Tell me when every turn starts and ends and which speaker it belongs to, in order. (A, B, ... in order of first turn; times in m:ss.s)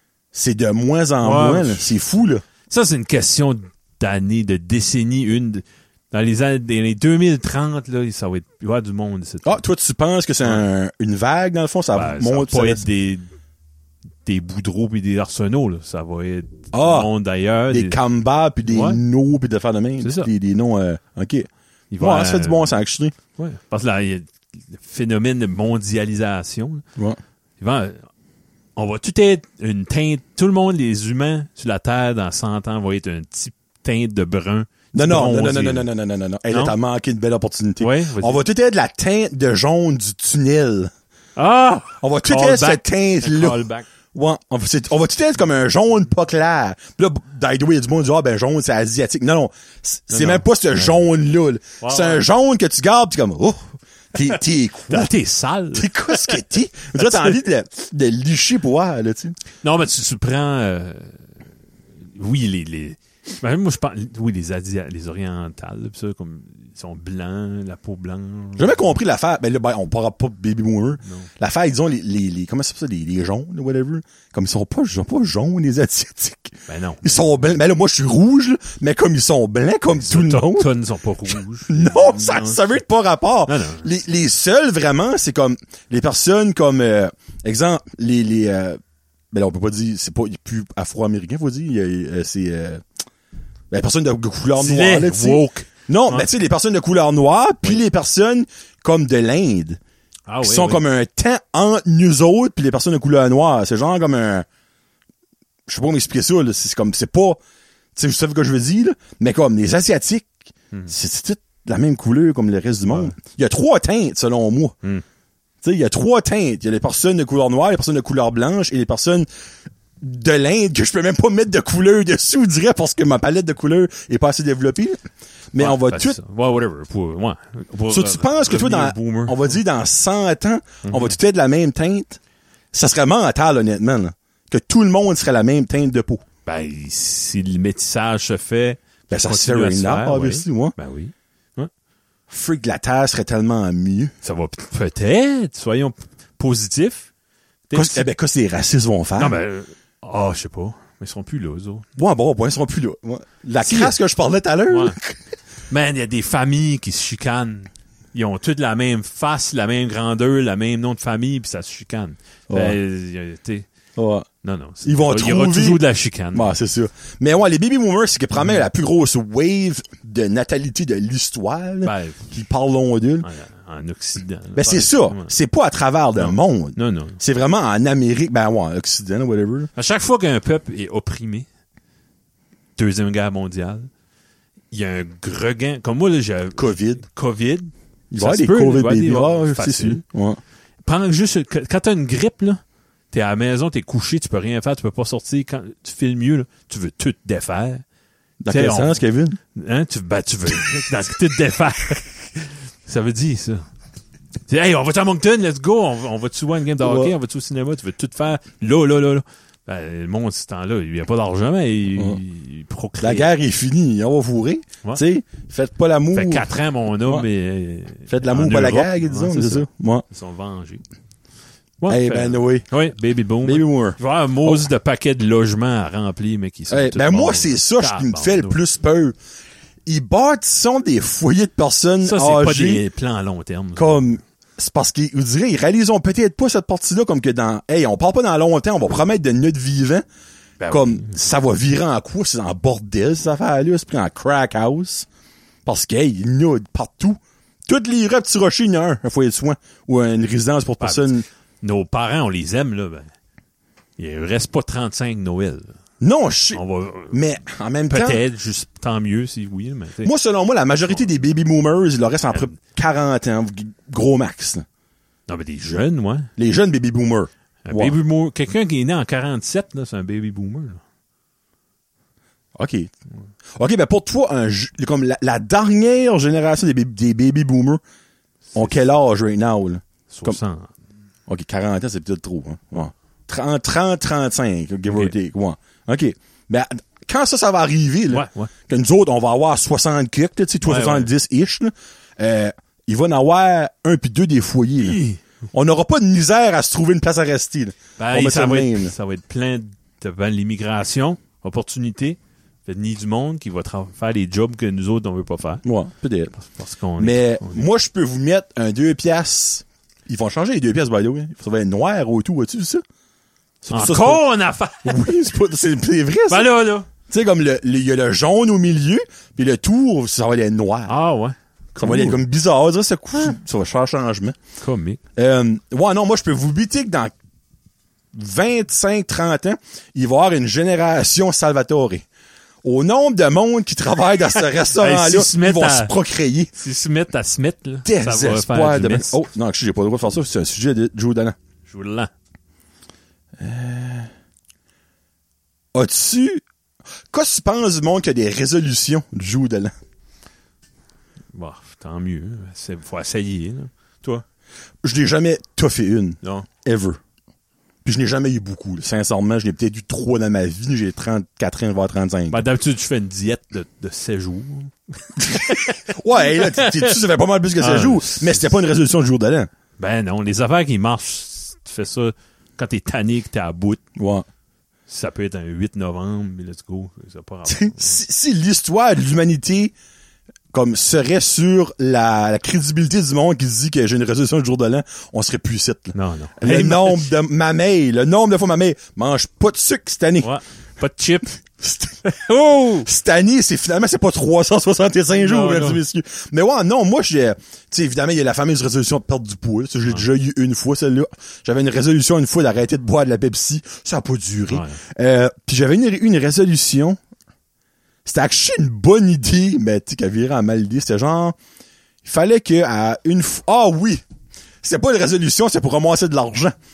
0:00.3-0:02.4 A
0:01.2-0:02.0 B
0:02.7-0:09.6 B
0:09.4-0:12.8 A
0:11.9-0:13.3 B
0:14.2-0:18.0 B
0:16.7-0:17.1 A
0:17.7-0:23.2 A
0:18.7-0:19.0 B
0:20.0-0:20.3 B
0:21.9-0:22.8 B
0:23.4-0:26.8 B
0:27.6-0:28.0 B
0:28.8-0:35.9 B
0:34.9-0:40.9 A
0:36.5-0:36.8 B
0:37.8-0:38.4 B
0:41.4-0:43.9 B
0:42.0-0:55.1 A
0:50.1-0:51.0 B
0:51.8-0:52.2 B
0:54.9-0:56.4 B
0:55.7-0:59.4 A
0:56.9-0:57.4 B
0:59.6-1:01.2 B
1:02.1-1:09.0 B
1:08.6-1:20.7 A
1:11.0-1:11.3 B
1:16.7-1:17.3 B
1:19.9-1:22.8 B
1:21.7-1:28.8 A
1:23.5-1:23.9 B
1:29.3-1:32.8 A
1:33.7-1:39.8 A
1:34.6-1:36.3 B
1:40.3-1:40.8 B
1:40.4-1:44.5 A
1:45.7-1:47.4 A
1:48.0-1:50.3 A
1:50.9-1:54.8 A
1:52.9-1:53.1 B
1:55.6-1:59.3 A
2:00.0-2:05.0 A
2:05.5-2:06.2 A
2:05.6-2:09.6 B
2:07.9-2:12.2 A
2:10.8-2:11.2 B
2:12.7-2:16.2 A
2:16.5-2:21.7 B
2:19.1-2:20.8 A
2:22.3-2:24.1 A
2:24.2-2:27.1 B
2:27.7-2:28.1 B
2:27.7-2:29.4 A
2:29.2-2:31.9 B
2:32.0-2:35.2 A
2:33.6-2:34.0 B
2:34.7-2:35.0 B
2:35.7-2:43.7 B
2:42.5-2:42.8 A
2:44.0-2:44.3 A
2:44.4-2:46.6 B
2:44.8-2:45.8 A
2:46.3-2:53.3 A
2:48.4-2:48.6 B
2:51.8-2:52.3 B
2:53.2-2:55.3 B
2:54.6-2:59.7 A
2:56.2-2:57.2 B
2:59.8-3:01.5 B
3:02.8-3:03.9 B
3:04.7-3:10.0 B
3:06.6-3:07.0 A
3:08.1-3:10.4 A
3:10.8-3:17.8 B
3:18.4-3:19.4 A
3:18.5-3:23.6 B
3:24.5-3:33.3 B
3:26.8-3:27.1 A
3:33.0-3:36.5 A
3:36.2-3:40.8 B
3:38.1-3:40.0 A
3:41.8-3:48.6 B
3:41.9-3:42.7 A
3:43.4-3:44.6 A
3:46.7-3:49.1 A
3:49.9-3:52.8 A
3:52.0-3:54.0 B
3:53.8-4:00.0 A
4:00.6-4:01.2 B
4:00.7-4:05.1 A
4:05.7-4:11.2 A
4:10.8-4:13.1 B
4:14.0-4:15.7 B
4:16.0-4:18.2 A
4:16.5-4:17.2 B
4:17.9-4:20.1 B
4:20.0-4:24.6 A
4:25.3-4:26.3 B
4:26.4-4:28.0 A
4:27.7-4:30.8 B
4:32.6-4:32.9 A
4:33.6-4:37.8 A
4:38.6-4:40.4 A
4:40.1-4:40.7 B
4:41.3-4:55.0 A
4:48.1-4:48.5 B
4:50.6-4:51.1 B
4:54.8-4:55.2 B
4:55.5-4:58.9 A
4:58.0-5:05.6 B
5:05.6-5:06.4 A
5:06.4-5:07.7 B
5:07.0-5:12.8 A
5:13.6-5:14.3 A
5:13.7-5:15.2 B
5:14.8-5:16.5 A
5:16.3-5:16.9 B
5:17.1-5:20.9 A
5:20.9-5:22.2 B
5:21.8-5:24.4 A
5:24.6-5:25.0 B
5:25.2-5:27.1 A
5:28.1-5:32.0 A
5:32.6-5:36.5 A
5:34.4-5:35.9 B
5:36.6-5:39.2 B
5:37.8-5:41.4 A
5:41.7-5:42.1 B
5:43.4-5:44.1 A
5:45.7-5:46.4 A
5:47.1-5:49.7 A
5:51.3-5:54.2 B
5:54.8-5:57.0 A
5:56.2-5:56.5 B
5:57.8-6:02.4 A
6:02.3-6:06.9 B
6:05.2-6:09.5 A
6:07.6-6:08.5 B
6:09.8-6:13.8 B
6:14.0-6:14.3 A
6:14.9-6:18.0 B
6:17.5-6:19.7 A
6:20.5-6:30.3 A
6:25.9-6:27.2 B
6:30.2-6:31.4 B
6:31.6-6:32.0 A
6:32.0-6:32.9 B
6:32.6-6:47.0 A
6:35.1-6:35.8 B
6:44.5-6:44.8 B
6:48.0-6:51.4 A
6:52.0-6:54.0 A
6:54.6-6:56.5 A